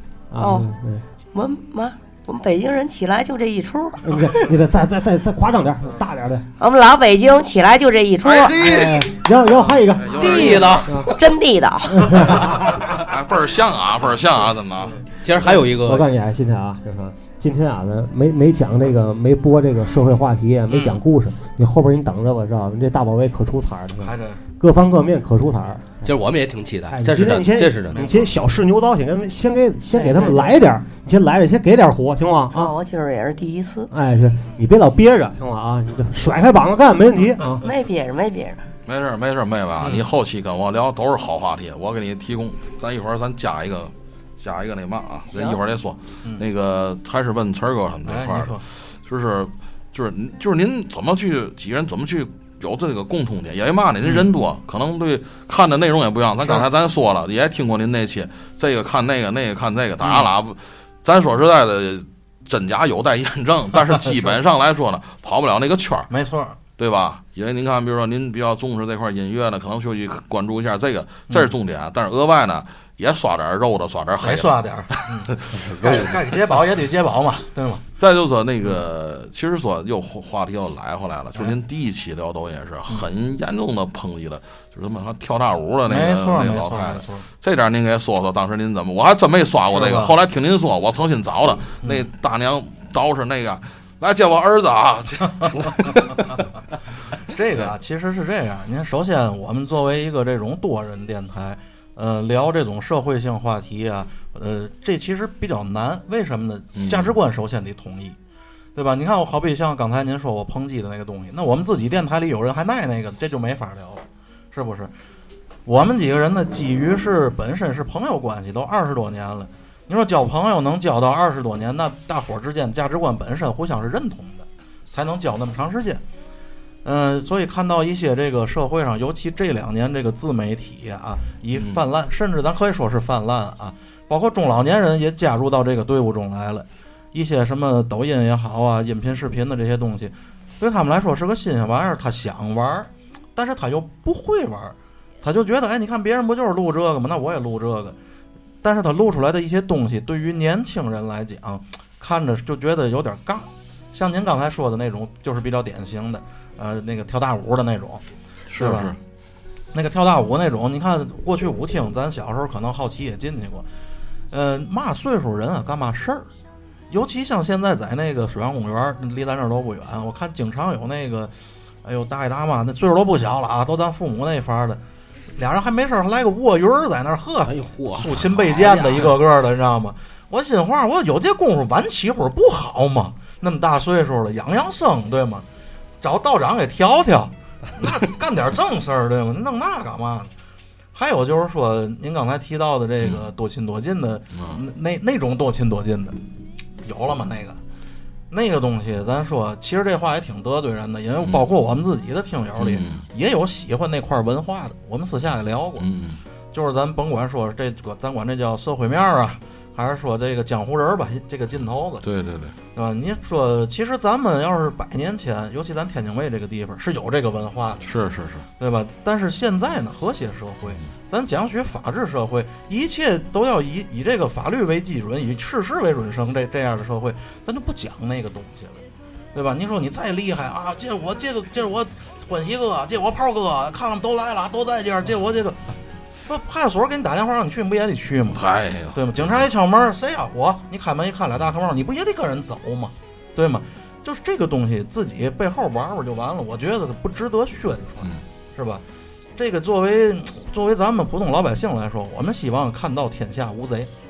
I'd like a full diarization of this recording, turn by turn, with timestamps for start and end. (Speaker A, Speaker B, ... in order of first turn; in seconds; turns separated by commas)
Speaker A: 0.3-1.0, Speaker B: 0.4-0.7, Speaker B: 1.3-4.2, Speaker A: 4.0-6.5, Speaker B: 6.6-8.6, Speaker C: 8.2-10.8, Speaker A: 8.5-11.1, Speaker D: 10.2-11.2, Speaker B: 10.3-10.6, Speaker B: 11.2-12.2, Speaker A: 11.9-12.9, Speaker C: 12.8-15.0, Speaker E: 14.8-15.1, Speaker D: 15.2-16.1, Speaker A: 15.4-26.0, Speaker E: 20.7-21.0, Speaker E: 24.0-24.4, Speaker D: 26.0-28.0, Speaker A: 26.9-32.7, Speaker E: 27.9-28.4, Speaker B: 29.9-30.6, Speaker B: 32.5-33.9, Speaker A: 33.9-37.6, Speaker B: 37.6-38.7, Speaker C: 38.9-66.1, Speaker E: 39.8-40.0, Speaker E: 48.1-48.6, Speaker E: 56.4-56.7, Speaker E: 64.1-64.3, Speaker E: 66.1-66.6, Speaker C: 66.8-76.1, Speaker E: 71.3-71.5, Speaker E: 74.2-77.8, Speaker C: 78.0-96.1, Speaker E: 85.9-87.3, Speaker E: 89.7-90.2, Speaker E: 91.8-92.1, Speaker E: 97.3-108.2, Speaker C: 106.8-107.2, Speaker E: 108.8-114.9, Speaker E: 115.7-126.0, Speaker E: 126.8-148.0, Speaker E: 148.6-158.0, Speaker C: 158.5-159.0, Speaker E: 158.6-158.9, Speaker E: 159.7-163.7, Speaker E: 164.3-166.3, Speaker E: 166.9-174.8, Speaker E: 175.4-185.4, Speaker D: 177.4-179.1, Speaker E: 186.0-190.3, Speaker E: 190.9-196.2, Speaker C: 194.3-194.6, Speaker E: 196.8-197.6, Speaker E: 198.3-205.9, Speaker C: 201.2-201.5, Speaker C: 202.6-203.0, Speaker C: 205.8-206.2, Speaker E: 206.5-212.1, Speaker C: 212.0-212.6, Speaker E: 212.8-217.9, Speaker C: 217.8-218.5, Speaker E: 218.6-228.8, Speaker E: 229.3-235.6, Speaker E: 236.3-238.4, Speaker C: 238.3-239.3, Speaker E: 238.9-248.8, Speaker E: 249.4-253.9